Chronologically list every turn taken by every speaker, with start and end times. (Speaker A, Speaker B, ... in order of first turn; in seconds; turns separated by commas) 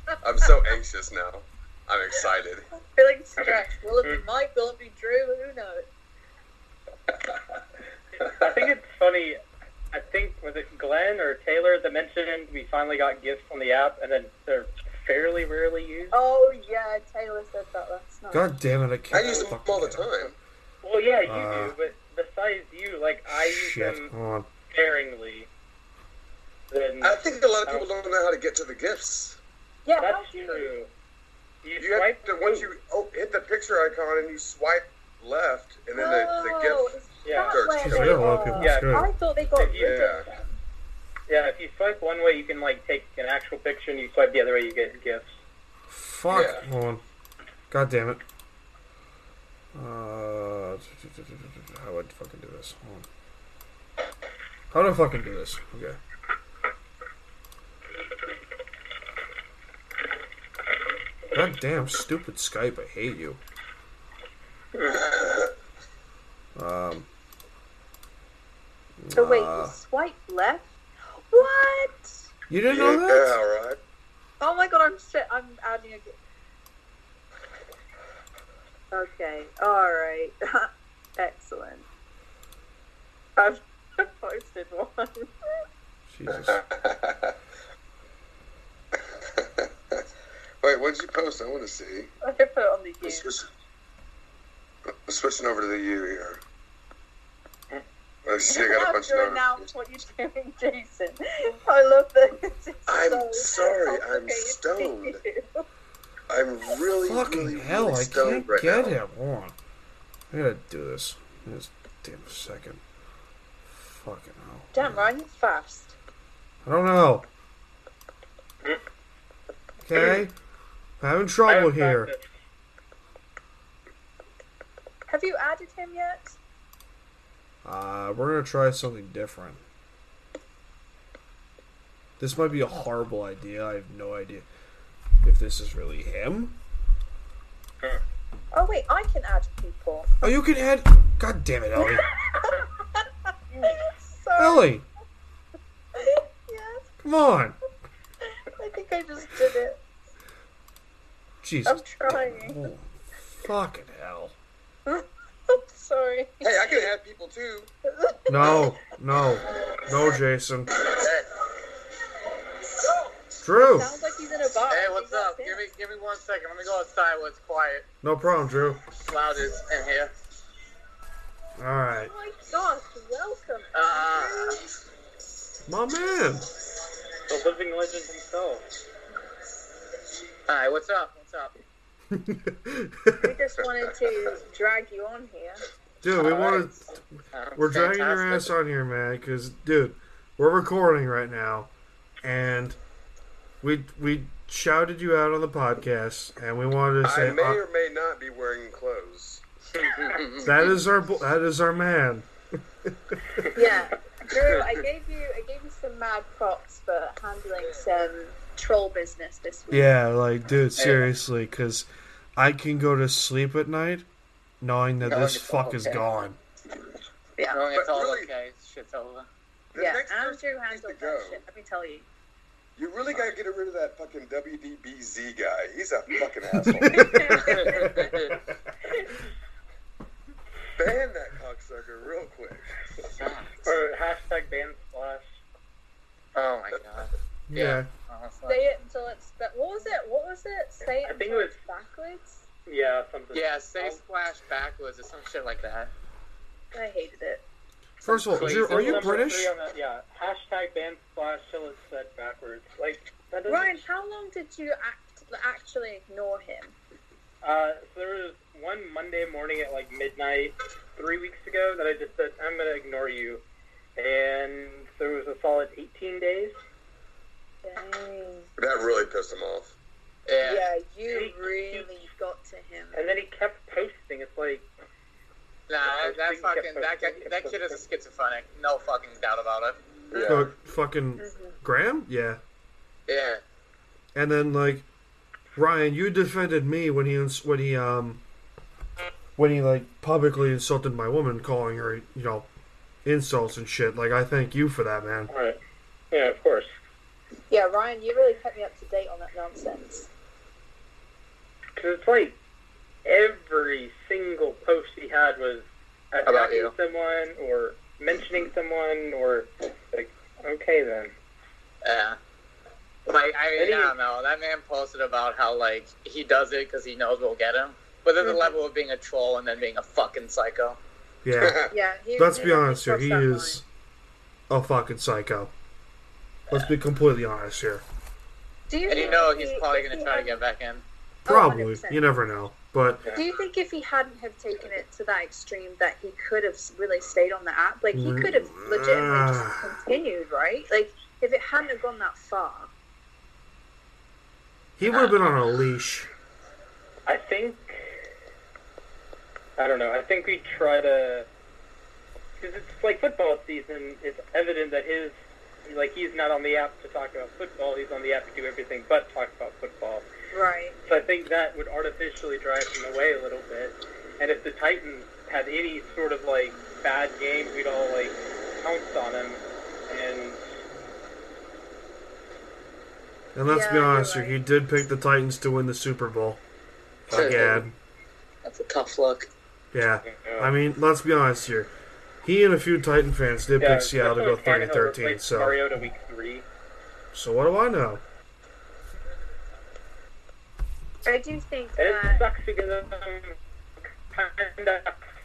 Speaker A: 0.2-2.7, Speaker B: 2.7-5.9, Speaker C: 8.3-9.4, Speaker C: 9.9-16.2, Speaker B: 16.1-18.5, Speaker D: 18.3-20.1, Speaker A: 19.1-20.4, Speaker C: 20.8-24.1, Speaker D: 21.2-21.8, Speaker D: 23.3-24.5, Speaker C: 24.7-25.5, Speaker C: 26.7-27.9, Speaker A: 27.0-29.4, Speaker B: 29.9-30.7, Speaker C: 30.0-30.9, Speaker C: 31.6-32.7, Speaker A: 31.8-36.9, Speaker B: 35.9-40.6, Speaker C: 37.2-37.6, Speaker A: 37.5-38.4, Speaker D: 37.8-39.1, Speaker C: 38.6-39.0, Speaker C: 39.6-40.1, Speaker A: 39.8-40.3, Speaker C: 41.3-45.4, Speaker D: 45.9-47.0, Speaker A: 46.3-46.6, Speaker D: 47.7-48.2, Speaker D: 49.7-53.1, Speaker D: 54.7-56.0, Speaker D: 61.3-63.4, Speaker C: 64.8-65.0, Speaker A: 64.8-65.5, Speaker D: 66.6-67.1, Speaker D: 69.0-69.8, Speaker B: 69.1-70.7, Speaker B: 71.3-72.2, Speaker D: 72.5-73.4, Speaker A: 72.7-73.8, Speaker B: 74.4-76.2, Speaker B: 78.9-81.8, Speaker B: 83.4-85.3, Speaker D: 86.1-86.6, Speaker A: 86.3-87.3, Speaker A: 89.2-90.0, Speaker A: 90.6-92.1, Speaker B: 92.2-93.3, Speaker A: 93.0-93.5, Speaker A: 95.1-96.4, Speaker A: 98.2-99.7, Speaker B: 98.4-105.7, Speaker A: 102.9-105.2, Speaker A: 106.3-109.0, Speaker D: 107.0-109.6, Speaker D: 110.3-112.8, Speaker D: 113.8-115.1, Speaker B: 114.7-116.0, Speaker D: 116.6-117.3, Speaker D: 119.8-120.3, Speaker D: 121.0-122.1, Speaker C: 121.5-122.2, Speaker B: 125.1-126.4, Speaker D: 127.6-129.6, Speaker D: 132.2-134.5, Speaker D: 135.2-136.6, Speaker B: 138.5-140.3, Speaker D: 140.2-142.1, Speaker B: 141.8-144.7, Speaker D: 144.4-144.9, Speaker B: 145.9-146.9, Speaker D: 147.0-147.6, Speaker B: 148.3-149.8, Speaker D: 151.4-154.4, Speaker B: 151.7-152.7, Speaker B: 154.9-156.9, Speaker A: 156.4-157.7, Speaker B: 157.9-158.7, Speaker D: 158.3-160.7, Speaker E: 160.8-161.3, Speaker D: 163.4-163.9, Speaker B: 163.6-165.7, Speaker E: 164.7-167.8, Speaker D: 168.0-168.8, Speaker E: 168.9-170.1, Speaker D: 171.6-172.1, Speaker B: 172.1-174.6, Speaker E: 173.7-174.6, Speaker D: 175.7-176.5, Speaker C: 177.3-178.7, Speaker E: 180.5-181.5, Speaker D: 182.1-183.3, Speaker B: 183.2-185.6, Speaker D: 186.0-187.0, Speaker E: 186.2-186.7, Speaker E: 187.3-188.5, Speaker D: 187.6-191.7, Speaker D: 192.2-192.8, Speaker D: 193.6-197.6, Speaker A: 197.0-199.4, Speaker E: 199.9-200.7, Speaker D: 200.4-202.3, Speaker D: 202.8-203.4, Speaker B: 203.5-210.0, Speaker D: 209.7-214.1, Speaker E: 210.8-211.1, Speaker D: 214.6-216.4, Speaker E: 215.0-216.1, Speaker B: 217.4-217.6, Speaker E: 217.5-219.3, Speaker A: 217.7-218.3, Speaker A: 219.7-221.4, Speaker B: 219.8-222.1, Speaker A: 222.8-227.9, Speaker D: 226.7-228.4, Speaker B: 226.8-228.2, Speaker B: 228.8-229.1, Speaker A: 230.8-232.7, Speaker C: 233.2-235.3, Speaker E: 233.2-233.6, Speaker E: 236.3-238.6, Speaker D: 237.5-237.9, Speaker B: 238.4-242.4, Speaker C: 241.0-241.6, Speaker C: 242.7-244.0, Speaker E: 243.3-245.9, Speaker B: 246.7-247.4, Speaker E: 248.0-249.2, Speaker D: 248.1-249.5, Speaker C: 248.3-253.8, Speaker B: 253.5-256.8, Speaker C: 257.4-263.4, Speaker C: 264.0-266.6, Speaker B: 267.6-268.5, Speaker A: 268.6-269.7, Speaker E: 270.3-270.7, Speaker B: 270.4-273.0, Speaker C: 271.1-271.9, Speaker C: 272.9-274.7, Speaker E: 275.7-280.4, Speaker C: 275.9-277.8, Speaker A: 280.1-280.5, Speaker D: 280.1-282.4, Speaker B: 281.2-281.6, Speaker E: 283.1-283.4, Speaker D: 284.1-284.9, Speaker D: 285.6-288.2, Speaker D: 289.4-292.5, Speaker D: 293.1-295.3, Speaker C: 295.3-295.6, Speaker C: 296.1-296.7, Speaker B: 297.5-300.1, Speaker C: 301.8-302.4, Speaker C: 303.1-311.1, Speaker E: 306.2-306.7, Speaker E: 311.8-312.2, Speaker E: 313.1-320.8, Speaker C: 313.6-314.0, Speaker B: 318.2-318.5, Speaker D: 321.2-321.6, Speaker A: 321.4-321.7, Speaker B: 321.7-323.6, Speaker D: 322.2-323.6, Speaker D: 324.5-325.5, Speaker D: 326.5-327.8, Speaker B: 328.7-330.4, Speaker E: 328.9-330.8, Speaker B: 331.3-332.1, Speaker D: 331.3-333.1, Speaker B: 333.1-342.7, Speaker D: 337.9-339.8, Speaker D: 344.8-346.1, Speaker E: 344.9-345.2, Speaker C: 347.1-347.8, Speaker C: 349.6-351.3, Speaker C: 352.4-360.1, Speaker B: 360.3-360.8, Speaker C: 360.9-370.4, Speaker D: 373.4-376.4, Speaker B: 373.4-374.4, Speaker D: 377.1-377.8, Speaker E: 377.1-377.7, Speaker E: 378.4-379.3, Speaker D: 379.7-381.7, Speaker C: 380.1-380.5, Speaker D: 382.2-385.6, Speaker C: 383.6-386.5, Speaker D: 387.1-388.0, Speaker B: 391.1-392.2, Speaker C: 391.8-393.4, Speaker C: 394.1-395.0